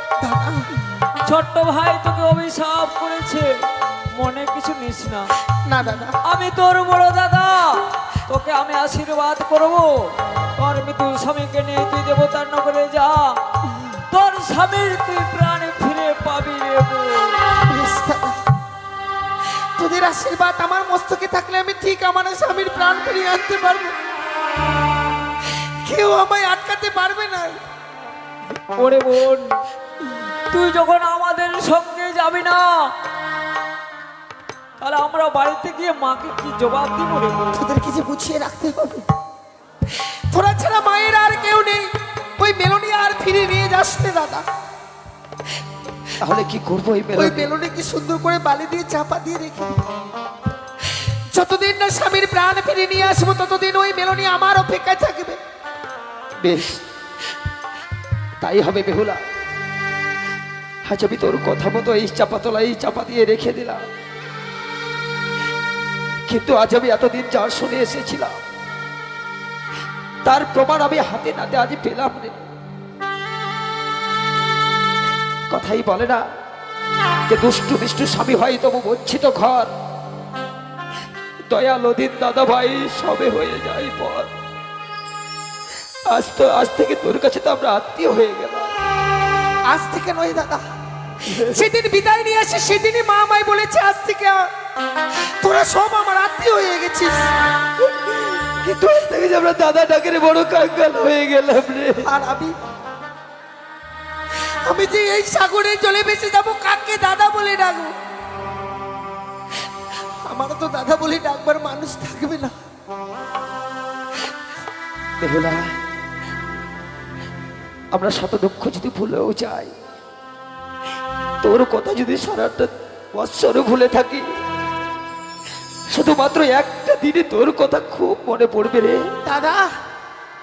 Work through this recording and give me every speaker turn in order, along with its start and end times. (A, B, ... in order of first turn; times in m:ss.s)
0:00.2-0:00.7 A
0:01.2-0:05.3 B
0:05.6-0:06.2 A
0:06.2-0:17.4 B
0:17.6-0:18.4 A
0:19.8-0:23.9 A
0:25.4-0:27.6 A
0:28.8-0:29.6 B
0:30.5-0:32.9 B
0:34.8-0:37.6 B
0:37.5-0:39.0 A
0:39.9-0:44.4 A
0:46.2-0:47.5 C
0:47.1-0:49.8 A
0:50.9-0:55.4 A
0:56.4-0:56.8 C
0:58.4-0:59.2 C
1:00.8-1:03.8 C
1:06.3-1:08.4 C
1:10.2-1:12.4 C
1:15.5-1:16.2 C
1:17.3-1:19.7 C
1:21.5-1:24.3 C
1:26.1-1:28.7 C
1:29.7-1:30.6 A
1:31.2-1:34.5 A
1:31.3-1:31.6 C
1:35.1-1:37.3 A
1:37.8-1:42.0 C
1:42.0-1:42.5 A
1:44.4-1:47.9 A
1:50.3-1:52.5 A
1:55.2-1:55.7 C
1:57.9-1:59.7 C
2:01.4-2:04.3 C
2:05.9-2:09.0 C
2:09.2-2:09.6 A